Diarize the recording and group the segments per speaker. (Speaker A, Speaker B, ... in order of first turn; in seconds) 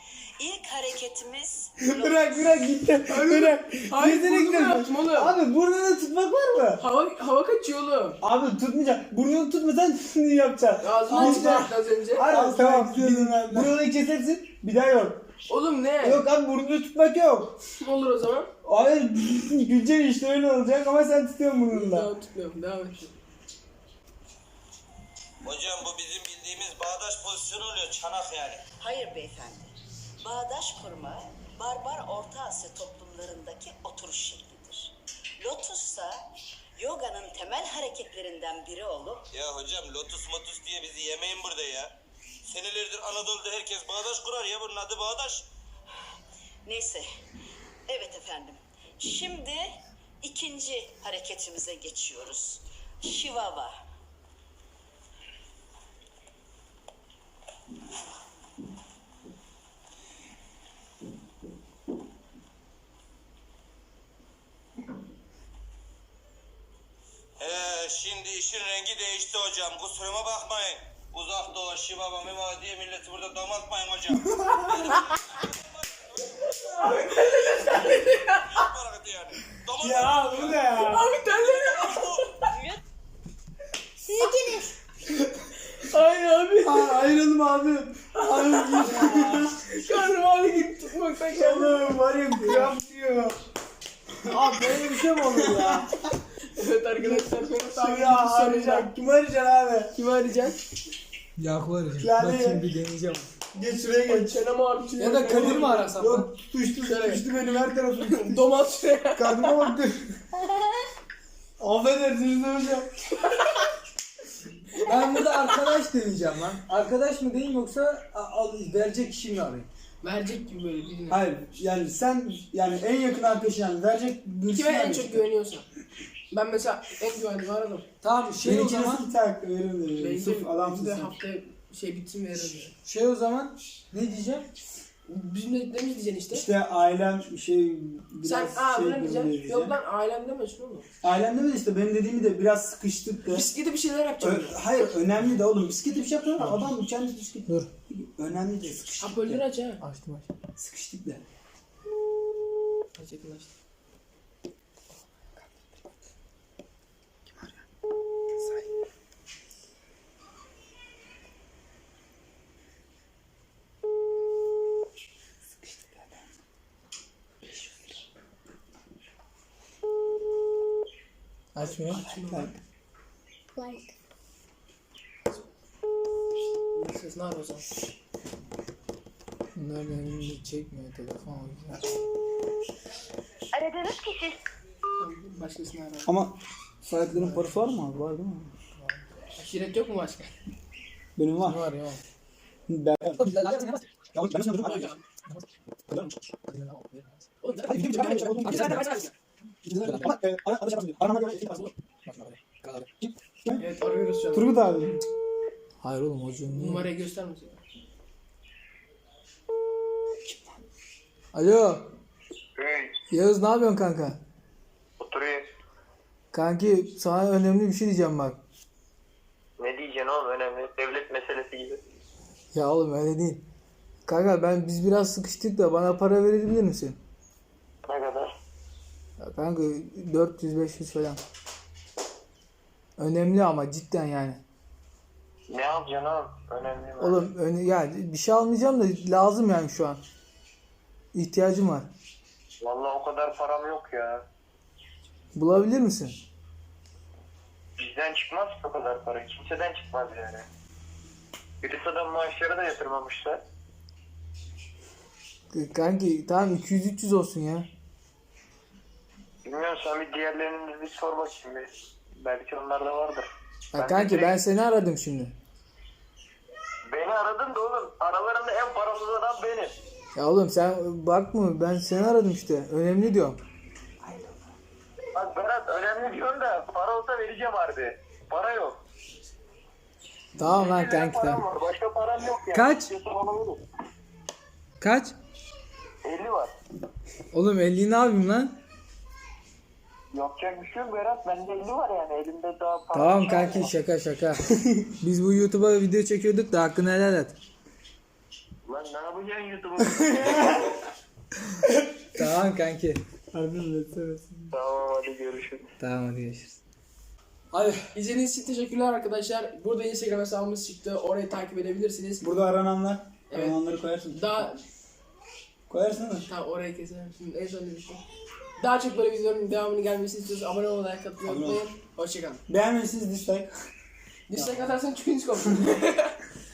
Speaker A: 0.4-2.3, 28.8-36.2, 36.8-39.3, 46.6-47.0, 47.9-53.8
Speaker B: 1.8-6.8, 8.2-15.2, 16.0-17.6, 18.6-22.1, 74.1-75.0, 79.8-81.1, 86.6-89.5, 91.3-93.3, 94.3-95.9, 97.0-99.9, 102.0-102.7, 103.5-104.4, 105.2-108.4, 109.1-110.2, 111.6-112.9, 121.1-125.2, 128.4-131.1, 136.3-139.7, 141.0-143.5, 144.2-149.4, 150.6-151.2, 172.1-172.5, 186.1-188.5, 191.2-191.6, 192.7-193.2, 194.2-194.6, 197.8-198.7, 199.7-200.2, 203.1-203.6, 204.3-205.0, 210.2-210.5, 303.3-304.5, 312.2-314.5, 315.7-316.2, 321.2-321.6, 322.5-323.5
Speaker C: 3.1-5.3, 6.8-8.2, 10.8-12.3, 15.5-16.2, 17.8-18.5, 21.7-23.1, 76.7-78.5, 80.8-82.5, 85.8-87.0, 88.2-92.7, 96.5-98.9, 99.9-100.6, 104.1-105.8, 106.8-107.2, 108.0-109.6, 120.0-121.2, 124.5-125.7, 126.3-127.8, 130.0-132.7, 135.1-136.4, 138.2-140.8, 143.3-144.6, 149.0-149.8, 152.9-153.5, 171.6-172.5, 176.7-177.7, 185.0-186.1, 189.3-190.3, 194.6-195.0, 197.4-199.1, 203.6-204.6, 206.5-207.6, 307.9-312.3, 313.3-313.6, 314.1-314.6, 316.3-318.0, 318.6-322.4, 324.3-326.2
Speaker D: 12.3-13.7, 94.3-95.8, 101.4-103.3, 105.0-106.3, 114.8-119.7, 128.0-129.1, 132.8-134.5, 149.8-150.3, 171.5-172.0, 179.5-181.8, 191.4-192.0, 193.2-193.8, 196.3-198.9, 199.8-202.9, 205.8-206.9, 211.3-211.9, 213.1-214.2, 216.3-218.4, 222.5-223.4, 224.1-227.0, 229.2-231.2, 233.0-234.4, 237.0-240.0, 241.1-241.9, 245.3-246.2, 255.5-257.7, 263.7-265.3, 270.1-273.4, 280.4-281.4, 282.5-282.9, 284.8-285.1, 287.3-288.6, 292.9-294.5, 295.0-297.4, 302.2-303.0, 305.8-306.6, 307.5-307.8
Speaker E: 25.4-28.6, 39.3-45.5, 67.4-82.1
Speaker F: 215.1-215.4, 219.6-221.8, 227.9-228.3, 235.5-237.1, 242.7-244.2, 247.9-250.4, 251.6-253.3, 259.5-261.6, 262.2-263.2, 263.8-264.2, 266.9-269.7, 275.1-278.8, 280.5-283.5, 286.1-286.5, 290.2-293.6, 298.7-300.3, 304.6-305.5